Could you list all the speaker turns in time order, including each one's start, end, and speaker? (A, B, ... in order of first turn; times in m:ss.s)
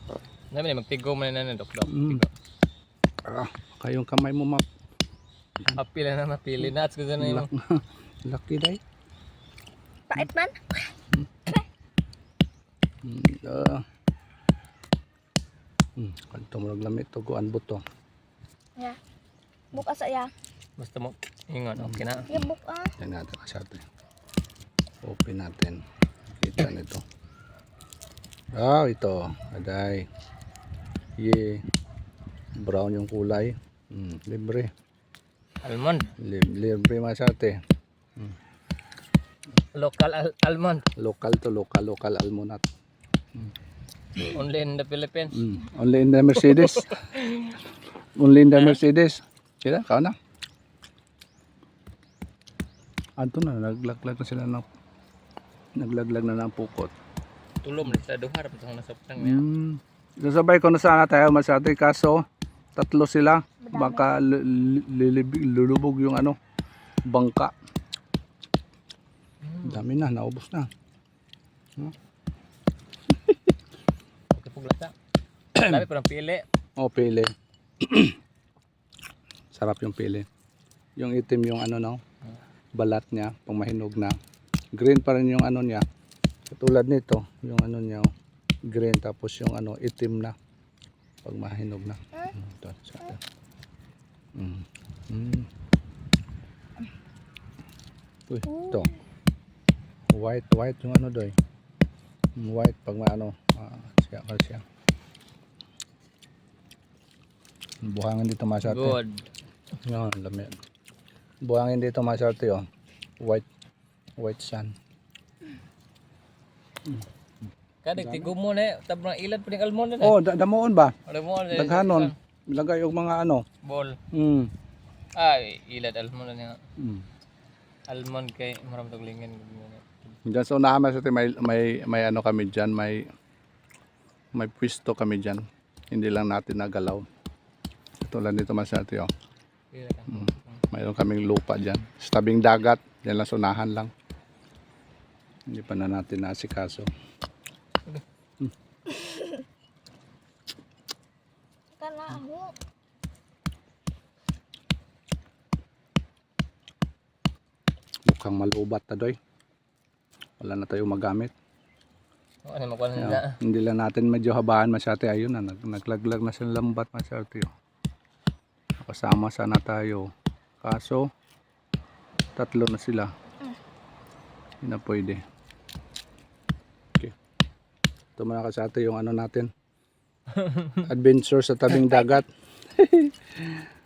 0:00.5-0:02.3 A
0:01.9-0:02.2 B
0:03.3-0:04.6 B
0:05.8-0:07.5 A
0:07.2-0:08.8 B
0:10.1-0:10.9 C
0:13.0-0:13.8 B
0:16.0-0:17.8 B
0:19.7-0:20.3 C
0:20.8-0:22.3 A
0:21.8-0:22.0 B
0:22.3-0:22.9 C
0:23.0-0:23.8 B
0:25.0-0:27.0 B
0:28.6-0:30.1 B
0:31.2-0:31.6 B
0:32.6-0:34.7 B
0:35.6-0:36.1 A
0:36.2-0:37.6 B
0:39.7-0:40.9 A
0:41.0-0:42.6 B
0:44.2-0:45.4 A
0:45.3-0:47.0 B
0:46.5-0:47.6 A
0:48.2-0:50.1 B
0:48.6-0:48.8 A
0:53.2-0:54.6 B
0:55.8-0:56.9 B
0:57.6-0:59.4 A
0:59.2-1:02.2 B
1:02.8-1:06.4 B
1:03.6-1:04.1 C
1:07.1-1:07.5 B
1:09.4-1:09.9 A
1:09.6-1:10.7 B
1:14.3-1:14.9 A
1:15.6-1:16.4 A
1:16.8-1:18.2 B
1:19.5-1:20.3 B
1:21.0-1:22.0 B
1:22.8-1:24.2 B
1:24.8-1:25.8 B
1:26.5-1:28.1 B
1:28.7-1:30.3 B
1:31.2-1:33.2 B
1:34.4-1:35.5 B
1:38.3-1:38.9 B
1:38.5-1:39.0 C
1:40.1-1:41.4 B
1:42.4-1:44.6 B
1:47.8-1:49.0 B
1:48.6-1:49.3 A
1:49.8-1:50.6 B
1:51.5-1:52.7 B
1:53.2-1:53.5 B
1:54.2-1:54.7 B
1:57.8-2:00.2 A
1:58.0-1:58.3 B
2:00.0-2:01.0 B
2:01.1-2:02.1 A
2:01.5-2:03.4 B
2:03.6-2:04.0 A
2:04.1-2:04.5 B
2:05.2-2:06.6 A
2:06.8-2:07.0 B
2:07.9-2:10.2 A
2:10.3-2:13.0 B
2:14.3-2:17.0 B
2:18.0-2:19.1 B
2:19.7-2:20.6 A
2:20.1-2:23.9 B
2:25.5-2:26.9 B
2:28.9-2:29.4 C
2:31.8-2:32.5 C
2:38.1-2:39.2 B
2:40.4-2:41.3 B
2:42.4-2:43.4 A
2:43.0-2:47.5 B
2:48.8-2:50.1 B
2:50.6-2:51.1 B
2:52.4-2:53.1 B
2:54.6-2:55.2 B
2:58.2-2:59.5 B
3:00.3-3:00.9 A
3:00.8-3:03.6 B